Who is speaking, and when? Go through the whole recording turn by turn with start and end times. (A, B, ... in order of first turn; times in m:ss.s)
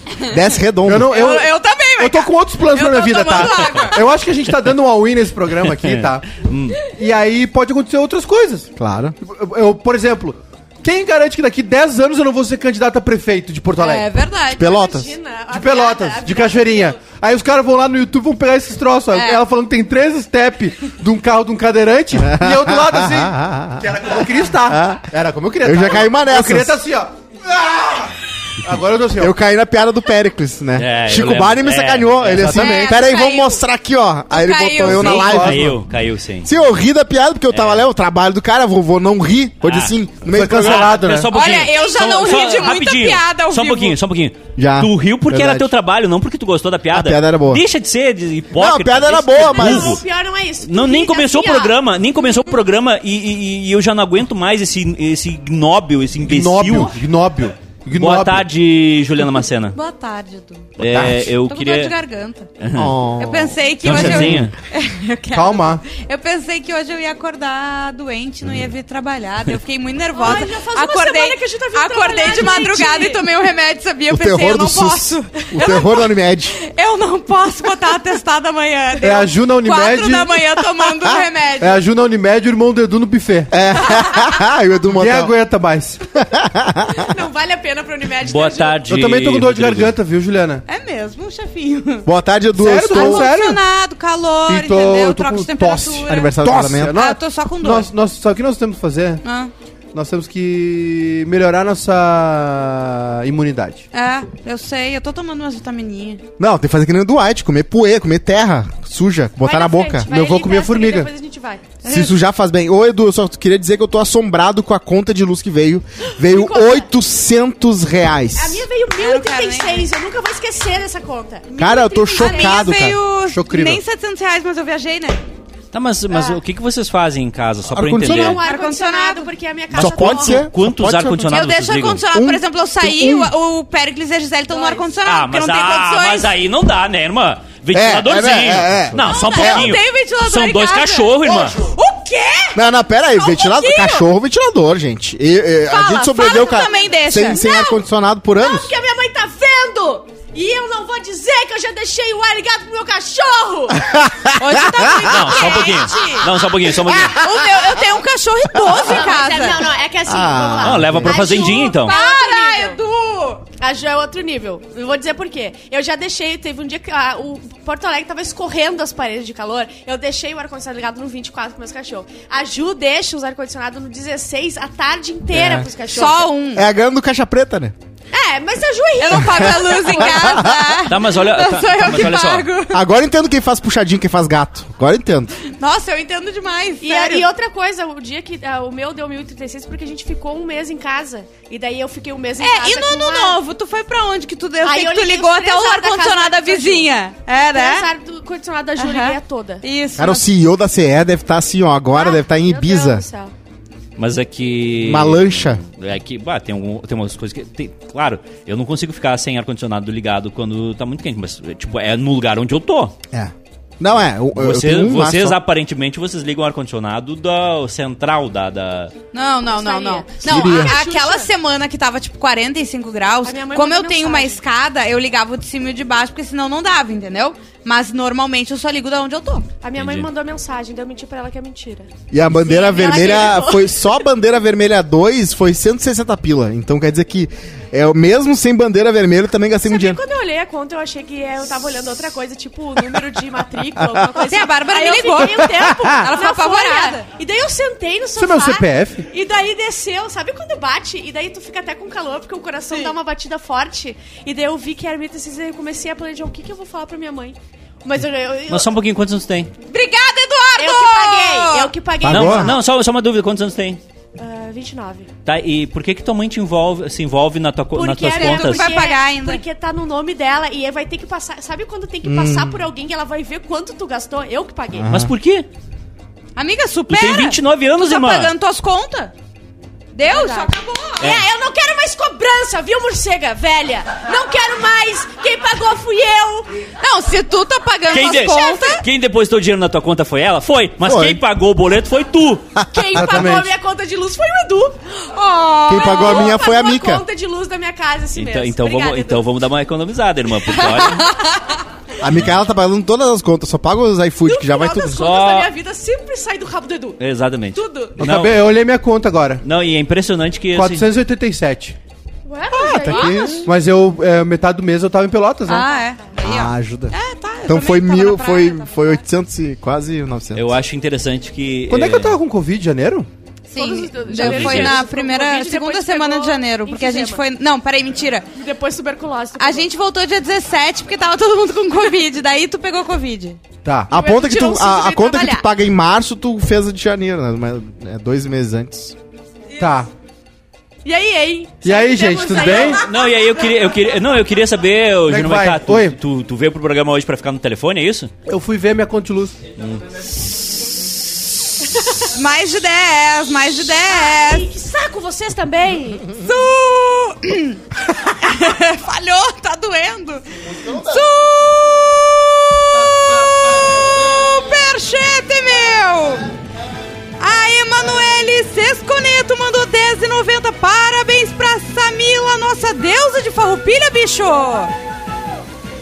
0:00.2-0:01.3 A
0:00.8-0:06.3 B
0:01.0-0:04.0 C
0:05.7-0:06.8 D
0:06.8-0:08.7 B
0:08.8-0:09.2 A
0:09.2-0:14.1 B
0:13.8-0:14.8 C
0:14.5-0:15.1 A
0:14.6-0:17.0 E
0:15.5-0:29.4 B
0:19.1-0:19.4 C
0:22.2-0:25.1 A
0:25.6-0:26.8 A
0:29.2-0:35.8 A
0:30.8-0:32.7 D
0:32.3-0:33.0 B
0:32.4-0:33.6 C
0:34.3-0:35.5 C
0:34.8-0:35.8 B
0:35.3-0:36.5 D
0:36.4-0:41.1 A
0:37.5-0:37.9 D
0:39.6-0:50.0 D
0:40.3-0:41.3 B
0:41.3-0:44.0 C
0:44.6-0:45.7 A
0:46.9-0:47.6 A
0:48.5-0:50.0 A
0:49.4-0:51.8 E
0:50.6-0:57.0 D
0:56.2-0:58.4 B
0:58.0-0:59.8 D
0:59.7-1:00.8 C
1:00.8-1:02.0 D
1:00.9-1:01.3 B
1:01.4-1:02.5 C
1:02.6-1:03.0 D
1:02.8-1:04.5 A
1:03.2-1:16.0 C
1:03.8-1:04.6 D
1:05.3-1:05.8 B
1:10.2-1:13.2 E
1:14.1-1:16.6 A
1:16.6-1:21.8 C
1:19.0-1:19.3 E
1:19.0-1:20.4 B
1:21.6-1:23.5 B
1:23.5-1:25.3 A
1:24.9-1:26.0 B
1:26.2-1:27.1 A
1:27.0-1:28.8 E
1:28.2-1:30.0 D
1:28.9-1:30.6 B
1:30.7-1:32.1 C
1:32.1-1:33.3 A
1:32.6-1:33.6 B
1:32.9-1:36.3 C
1:34.5-1:39.2 B
1:36.1-1:37.0 A
1:36.9-1:37.9 C
1:39.2-1:39.5 C
1:39.9-1:43.9 B
1:43.9-1:46.2 C
1:46.4-1:50.1 A
1:49.4-1:51.6 E
1:50.1-1:51.1 B
1:51.8-1:52.1 C
1:51.9-1:58.6 A
1:56.0-1:56.9 E
1:58.4-2:02.8 E
1:59.0-1:59.9 C
2:01.6-2:03.0 A
2:01.6-2:05.2 C
2:03.3-2:03.8 B
2:05.7-2:08.4 D
2:06.1-2:06.4 E
2:07.7-2:08.4 A
2:08.0-2:10.5 E
2:08.3-2:10.1 C
2:09.8-2:11.3 A
2:10.1-2:12.0 D
2:11.3-2:16.3 C
2:12.1-2:13.3 A
2:14.5-2:14.9 E
2:15.0-2:21.6 D
2:17.7-2:19.7 A
2:19.0-2:21.2 C
2:19.1-2:24.1 E
2:22.5-2:28.7 A
2:25.7-2:27.7 E
2:26.0-2:27.7 C
2:28.4-2:33.9 E
2:33.8-2:35.0 A
2:34.4-2:39.7 C
2:34.9-2:36.3 E
2:35.0-2:37.2 D
2:38.5-2:38.8 A
2:38.6-2:42.8 E
2:40.1-2:41.2 A
2:40.6-2:42.0 D
2:41.1-2:43.4 C
2:43.6-2:56.3 E
2:55.3-2:55.7 A
2:55.8-2:56.6 C
2:56.5-2:57.8 A
2:58.1-3:00.1 E
2:59.0-3:02.9 C
2:59.9-3:00.8 A
3:00.9-3:02.5 D
3:02.7-3:05.4 A
3:05.5-3:07.3 C
3:06.8-3:13.4 E
3:12.4-3:17.9 C
3:14.6-3:16.9 E
3:17.5-3:19.6 E
3:18.8-3:20.2 C
3:20.0-3:23.0 A
3:21.9-3:23.3 E
3:24.0-3:33.0 D
3:24.8-3:25.6 A
3:33.1-3:35.4 A
3:34.4-3:39.0 D
3:39.1-3:49.5 C
3:39.5-3:41.3 E
3:40.2-3:40.8 A
3:43.2-3:44.4 E
3:49.6-3:54.0 E
3:49.8-3:50.1 D
3:52.1-4:00.0 A
3:59.6-4:18.7 E
4:04.2-4:07.1 C
4:05.6-4:06.1 B
4:08.2-4:09.0 B
4:18.5-4:19.5 D
4:19.7-4:21.7 C
4:20.6-4:22.6 E
4:22.0-4:22.6 A
4:22.1-4:23.8 D
4:24.2-4:25.1 E
4:25.2-4:28.7 D
4:27.7-4:34.9 E
4:28.0-4:29.4 C
4:32.0-4:32.6 A
4:34.8-4:35.1 A
4:34.9-4:35.5 D
4:36.4-4:39.1 C
4:36.9-4:38.3 D
4:39.9-4:41.1 C
4:40.0-4:46.5 E
4:46.8-4:48.8 C
4:47.9-4:52.4 D
4:50.8-4:51.2 A
4:52.6-4:53.4 A
4:52.7-4:55.0 E
4:52.9-4:53.5 B
4:55.1-4:56.4 C
4:55.7-4:57.0 A
4:55.7-4:59.3 E
4:58.2-5:01.1 D
5:00.8-5:01.3 C
5:02.0-5:05.1 A
5:04.2-5:07.0 E
5:05.0-5:05.5 D
5:07.0-5:08.5 D
5:07.5-5:08.0 E
5:08.0-5:09.4 B
5:09.4-5:10.9 D
5:10.5-5:11.8 B
5:12.3-5:13.5 E
5:12.5-5:13.5 A
5:12.8-5:13.3 C
5:13.4-5:15.7 B
5:15.5-5:19.0 C
5:15.6-5:16.2 E
5:16.2-5:17.0 A
5:17.5-5:20.6 A
5:20.4-5:22.2 D
5:21.7-5:23.1 B
5:23.5-5:28.3 C
5:23.6-5:27.2 E
5:24.1-5:24.8 D
5:28.4-5:29.7 E
5:29.4-5:33.4 C
5:33.6-5:33.9 B
5:33.9-5:39.0 A
5:33.9-5:35.4 E
5:39.6-5:39.9 B
5:40.8-5:42.9 E
5:41.6-5:42.8 B
5:42.7-5:48.1 D
5:45.1-5:46.0 B
5:48.3-5:49.4 B
5:49.6-5:50.1 D
5:51.8-5:54.5 C
5:53.9-5:56.1 E
5:56.1-6:06.3 C
6:00.5-6:01.0 A
6:07.2-6:14.7 C